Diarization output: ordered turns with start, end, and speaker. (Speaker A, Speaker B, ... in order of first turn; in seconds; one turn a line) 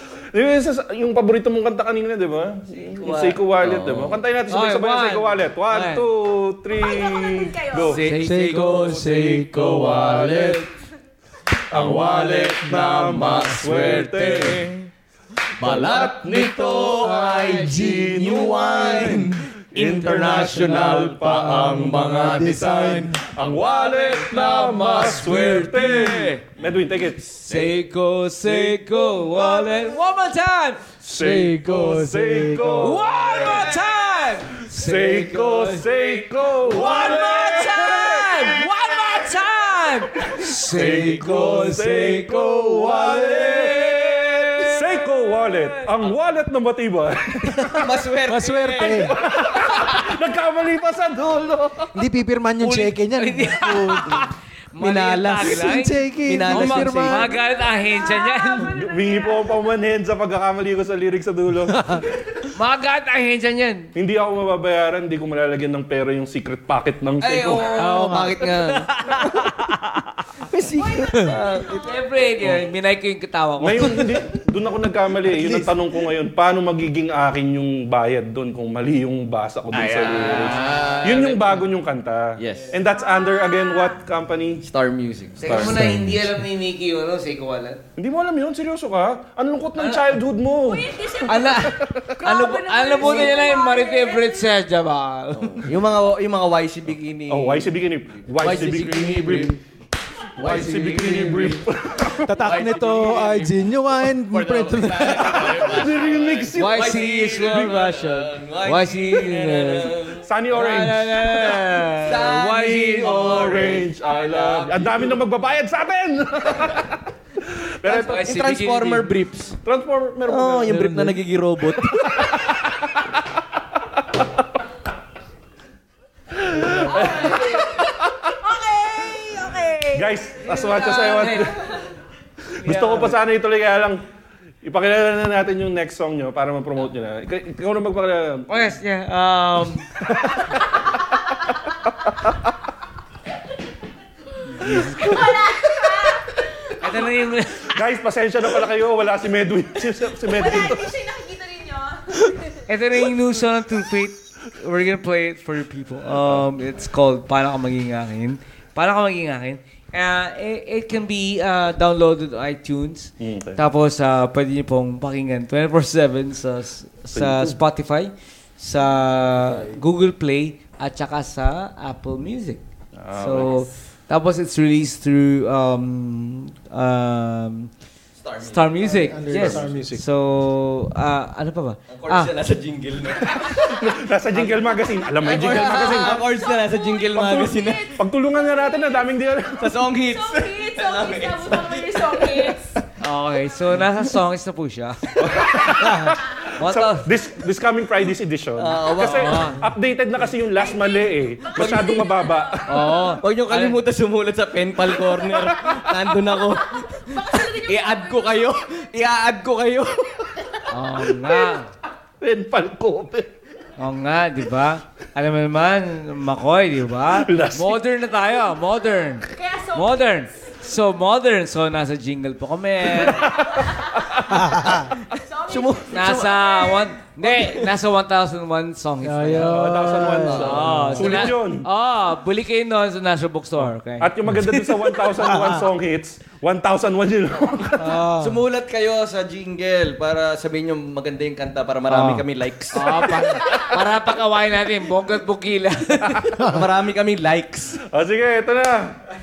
Speaker A: 0.3-8.0
Speaker B: 2.7-4.2
Speaker C: 4.5-6.0
Speaker D: 6.7-8.0
Speaker B: 7.8-10.6
Speaker C: 7.8-9.1
Speaker E: 8.2-10.3
Speaker A: 9.8-10.6
Speaker A: 11.7-14.7
Speaker B: 11.7-14.6
Speaker C: 13.3-14.9
Speaker B: 15.6-23.2
Speaker A: 15.6-27.4
Speaker E: 19.1-19.3
Speaker E: 22.2-23.2
Speaker C: 23.5-26.4
Speaker B: 25.0-27.7
Speaker C: 27.3-30.8
Speaker A: 28.6-29.0
Speaker B: 29.4-29.9
Speaker A: 31.0-33.8
Speaker E: 31.1-33.0
Speaker C: 32.8-46.0
Speaker A: 34.7-39.4
Speaker A: 40.1-48.0
Speaker B: 40.8-41.2
Speaker E: 42.1-43.7
Speaker B: 42.9-44.0
Speaker E: 47.6-49.1
Speaker B: 47.7-49.1
Speaker A: 48.9-51.9
Speaker C: 49.5-50.0
Speaker E: 51.9-54.3
Speaker C: 52.6-58.7
Speaker B: 54.8-57.3
Speaker E: 55.5-57.3
Speaker D: 57.4-59.7
Speaker A: 58.7-62.0
Speaker E: 61.7-62.0
Speaker C: 62.5-63.9
Speaker A: 63.9-67.8
Speaker C: 67.2-69.4
Speaker B: 67.7-69.0
Speaker E: 67.8-68.4
Speaker B: 70.5-71.8
Speaker D: 70.8-72.7
Speaker C: 71.7-74.1
Speaker A: 73.6-84.7
Speaker E: 75.2-75.7
Speaker B: 79.7-81.7
Speaker C: 79.7-81.4
Speaker B: 82.4-82.9
Speaker D: 82.8-84.0
Speaker B: 84.6-86.0
Speaker A: 85.4-86.2
Speaker C: 85.4-87.8
Speaker A: 88.0-92.4
Speaker C: 89.8-90.2
Speaker D: 90.7-94.5
Speaker C: 91.2-95.7
Speaker B: 93.0-93.4
Speaker B: 95.3-99.6
Speaker A: 97.3-99.6
Speaker A: 100.3-102.4
Speaker B: 100.4-101.5
Speaker C: 100.4-101.6
Speaker E: 102.2-105.7
Speaker B: 102.4-110.8
Speaker A: 105.3-107.7
Speaker C: 106.5-110.0
Speaker A: 110.2-111.6
Speaker C: 110.5-113.8
Speaker B: 112.0-115.2
Speaker A: 112.2-118.5
Speaker B: 117.8-119.6
Speaker C: 117.9-119.1
Speaker A: 119.6-121.1
Speaker B: 120.2-122.2
Speaker A: 121.8-123.1
Speaker A: 124.1-124.4
Speaker A: 126.3-128.3
Speaker D: 126.8-131.6
Speaker A: 129.9-131.6
Speaker C: 130.4-131.8
Speaker C: 132.6-133.2
Speaker A: 132.6-134.0
Speaker A: 134.6-138.6
Speaker C: 138.5-139.9
Speaker A: 140.2-140.5
Speaker C: 144.5-145.3
Speaker D: 144.9-146.8
Speaker A: 144.9-145.4
Speaker C: 146.8-147.8
Speaker A: 147.7-150.9
Speaker D: 150.2-152.6
Speaker C: 152.7-172.6
Speaker A: 156.1-156.5
Speaker A: 163.2-163.6
Speaker A: 167.1-167.6
Speaker A: 173.0-173.6
Speaker C: 173.1-177.7
Speaker B: 178.2-179.7
Speaker C: 178.4-182.3
Speaker E: 179.1-180.0
Speaker B: 181.9-183.7
Speaker A: 183.3-186.2
Speaker D: 183.5-183.8
Speaker B: 184.3-188.0
Speaker D: 185.1-189.2
Speaker A: 187.2-189.8
Speaker B: 189.6-192.5
Speaker D: 189.7-192.8
Speaker C: 193.0-195.0
Speaker A: 195.2-203.2
Speaker B: 195.3-196.2
Speaker C: 196.6-197.0
Speaker B: 198.6-199.6
Speaker C: 199.1-199.6
Speaker D: 200.6-202.6
Speaker B: 201.5-202.0
Speaker C: 202.7-203.8
Speaker B: 203.1-210.3
Speaker D: 206.5-208.8
Speaker C: 210.7-211.7
Speaker A: 212.2-213.3
Speaker C: 213.8-223.3
Speaker A: 217.1-217.8
Speaker D: 219.0-220.5
Speaker A: 223.1-224.5
Speaker D: 223.2-224.0
Speaker E: 224.4-224.7
Speaker D: 224.6-226.9
Speaker B: 225.5-226.3
Speaker C: 225.9-234.1
Speaker B: 227.3-227.7
Speaker E: 229.0-231.1
Speaker A: 229.4-231.7
Speaker B: 230.1-231.2
Speaker A: 233.6-238.0
Speaker E: 234.2-235.7
Speaker E: 237.8-238.4
Speaker B: 238.1-243.5
Speaker E: 241.9-242.2
Speaker C: 242.7-246.3
Speaker B: 246.4-247.8
Speaker A: 247.8-248.9